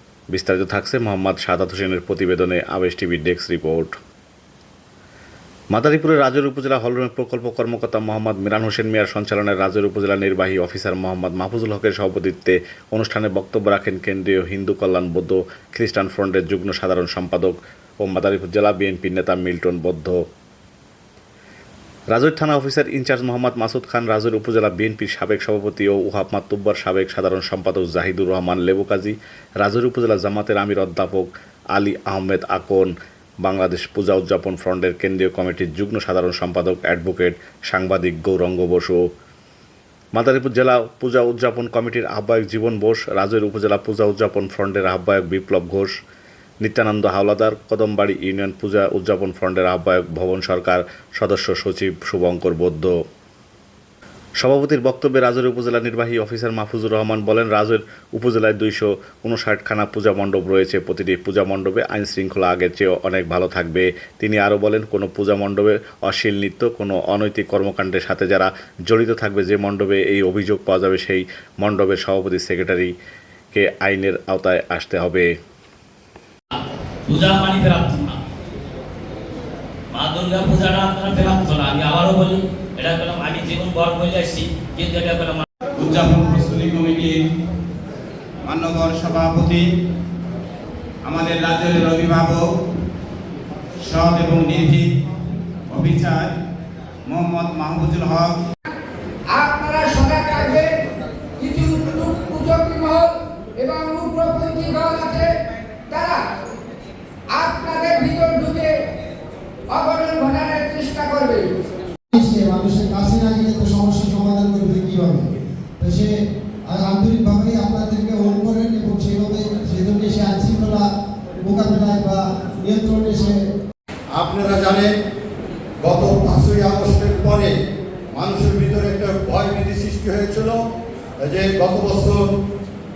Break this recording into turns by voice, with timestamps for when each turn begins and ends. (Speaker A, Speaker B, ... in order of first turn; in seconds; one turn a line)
Speaker A: 0.3-4.0
Speaker A: 5.7-20.2
Speaker A: 22.1-32.9
Speaker A: 33.4-39.0
Speaker A: 40.1-45.9
Speaker A: 46.6-52.9
Speaker A: 54.4-72.9
Speaker A: 73.5-75.3
Speaker B: 77.1-78.2
Speaker B: 79.9-85.5
Speaker C: 85.8-87.2
Speaker C: 88.4-89.7
Speaker C: 91.0-92.5
Speaker C: 93.8-94.9
Speaker C: 95.7-96.3
Speaker C: 97.1-98.4
Speaker D: 99.3-100.8
Speaker D: 101.4-105.3
Speaker D: 105.9-106.2
Speaker D: 107.3-108.8
Speaker D: 109.7-111.5
Speaker E: 112.1-115.3
Speaker E: 115.8-116.1
Speaker E: 116.7-120.8
Speaker E: 121.4-123.4
Speaker F: 124.2-124.9
Speaker F: 125.8-127.5
Speaker F: 128.1-130.6
Speaker F: 131.2-132.2